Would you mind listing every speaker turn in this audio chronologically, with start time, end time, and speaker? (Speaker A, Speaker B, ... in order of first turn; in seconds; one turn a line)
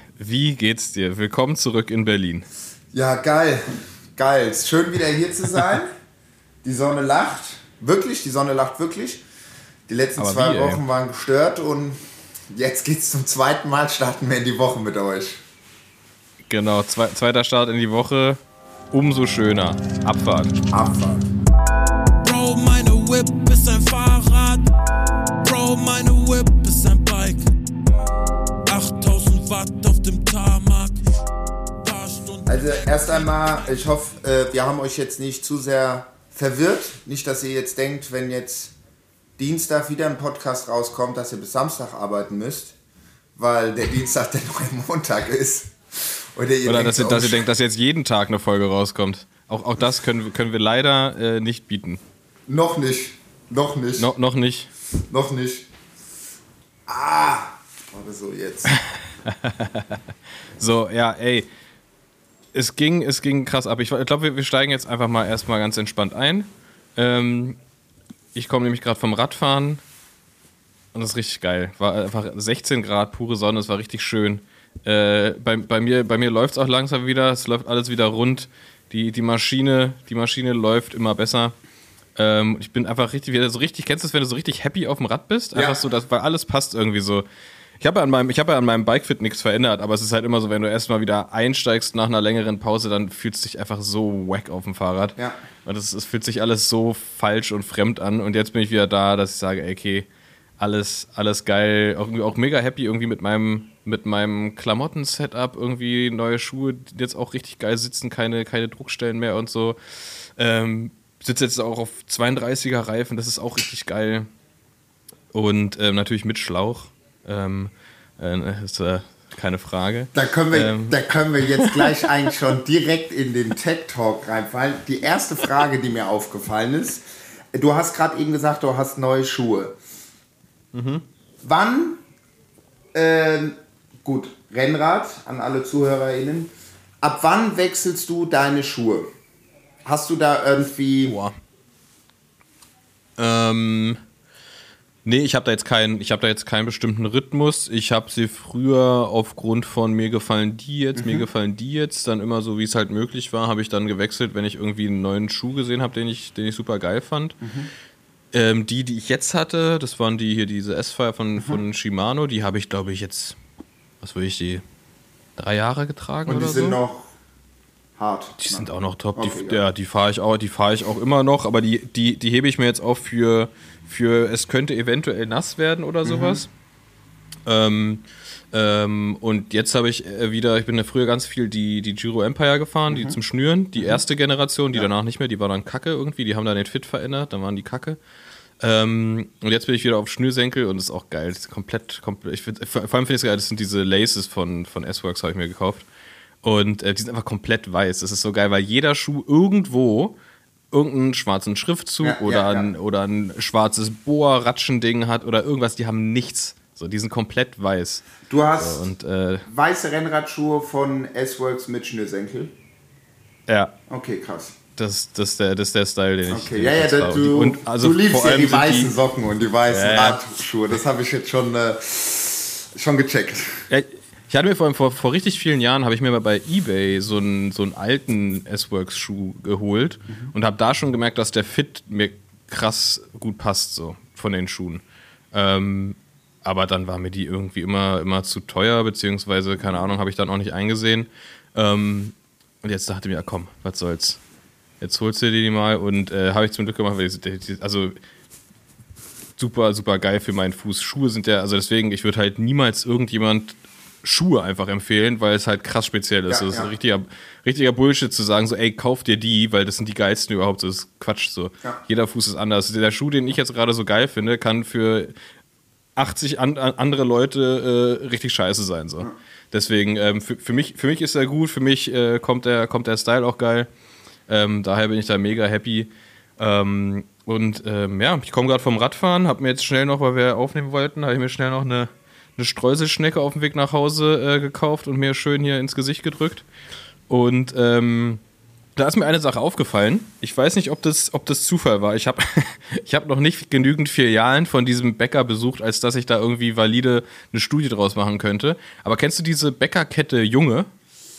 Speaker A: 0.2-2.4
Speaker B: 2.9-5.9
Speaker B: 6.6-9.2
Speaker B: 9.9-15.4
Speaker A: 10.2-10.8
Speaker A: 16.5-18.4
Speaker A: 18.9-20.6
Speaker B: 20.7-21.2
Speaker C: 22.2-24.6
Speaker C: 25.4-27.5
Speaker C: 28.6-31.0
Speaker C: 31.8-33.6
Speaker B: 32.5-38.7
Speaker B: 39.4-42.7
Speaker B: 43.4-47.5
Speaker A: 46.6-52.0
Speaker B: 52.5-54.1
Speaker A: 54.0-54.7
Speaker B: 55.1-55.7
Speaker B: 56.9-58.8
Speaker A: 58.7-60.0
Speaker A: 60.6-61.5
Speaker A: 62.5-67.6
Speaker A: 68.3-69.8
Speaker A: 70.9-81.5
Speaker A: 82.2-87.2
Speaker B: 85.5-85.8
Speaker A: 87.8-100.1
Speaker A: 100.6-109.8
Speaker A: 110.4-114.3
Speaker A: 115.3-121.9
Speaker B: 120.1-129.8
Speaker A: 130.7-131.0
Speaker B: 131.4-132.0
Speaker B: 132.9-139.1
Speaker B: 139.8-141.2
Speaker A: 141.1-141.3
Speaker A: 143.2-144.0
Speaker A: 145.0-157.4
Speaker B: 150.9-151.2
Speaker B: 157.4-157.7
Speaker A: 158.3-163.4
Speaker A: 164.0-164.6
Speaker A: 165.4-166.8
Speaker B: 166.2-167.1
Speaker B: 168.0-169.6
Speaker A: 168.4-176.5
Speaker B: 176.0-176.4
Speaker A: 177.4-188.0
Speaker B: 182.9-183.2
Speaker A: 188.6-195.8
Speaker A: 196.4-200.2
Speaker A: 200.7-209.5
Speaker B: 202.0-202.7
Speaker B: 208.3-208.9
Speaker B: 209.5-212.5
Speaker A: 213.5-213.7
Speaker B: 213.9-214.5
Speaker A: 214.8-218.9
Speaker B: 216.3-223.6
Speaker A: 219.7-220.2
Speaker A: 223.7-234.8
Speaker A: 235.3-244.2
Speaker A: 244.8-247.9
Speaker A: 249.4-265.1
Speaker B: 256.3-256.7
Speaker A: 265.9-273.7
Speaker A: 274.3-286.4
Speaker A: 287.1-288.2
Speaker A: 288.8-300.7